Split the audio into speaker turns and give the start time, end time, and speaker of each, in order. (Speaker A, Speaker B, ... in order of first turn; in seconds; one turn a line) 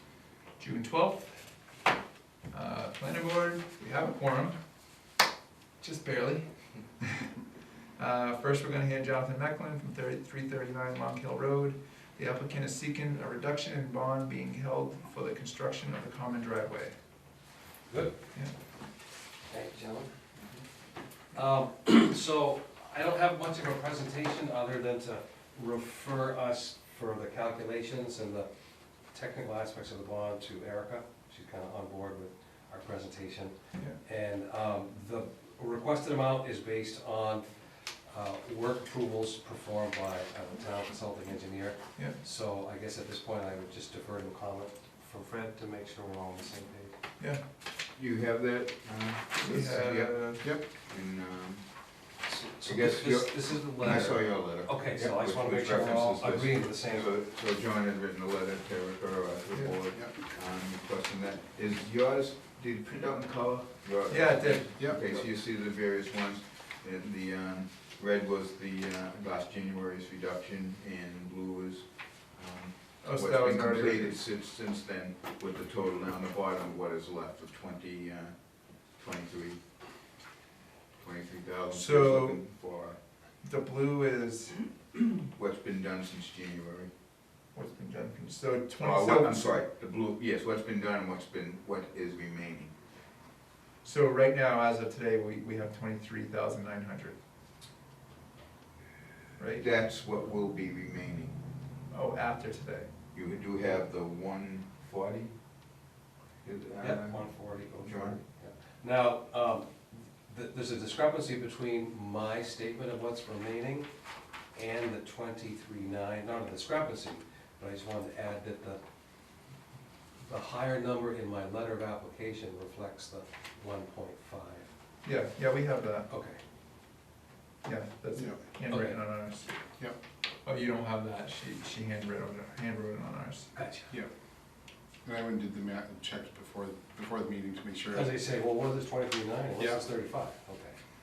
Speaker A: 0.6-1.4
Speaker A: 2.5-4.6
Speaker A: 5.8-6.5
Speaker A: 7.0-7.3
Speaker A: 8.0-16.9
Speaker B: 17.9-18.2
Speaker B: 19.5-20.1
Speaker B: 21.3-28.5
Speaker B: 29.1-46.9
Speaker C: 47.9-52.0
Speaker A: 49.4-50.5
Speaker B: 52.2-57.1
Speaker C: 52.6-79.6
Speaker A: 64.1-64.9
Speaker D: 64.8-65.0
Speaker A: 73.0-74.2
Speaker C: 81.0-83.0
Speaker A: 81.7-82.4
Speaker A: 83.4-85.0
Speaker C: 85.4-86.9
Speaker A: 87.5-89.7
Speaker C: 88.8-92.7
Speaker A: 93.8-97.2
Speaker A: 99.4-99.7
Speaker C: 99.6-101.4
Speaker A: 101.9-102.9
Speaker C: 103.1-105.4
Speaker C: 106.4-108.2
Speaker B: 106.8-113.9
Speaker B: 114.5-118.8
Speaker B: 120.2-124.7
Speaker A: 125.0-126.1
Speaker B: 126.1-126.4
Speaker A: 127.6-129.5
Speaker D: 128.2-128.5
Speaker B: 128.7-129.0
Speaker A: 130.4-133.5
Speaker B: 133.5-133.9
Speaker D: 135.0-138.2
Speaker B: 137.9-140.8
Speaker D: 139.6-139.8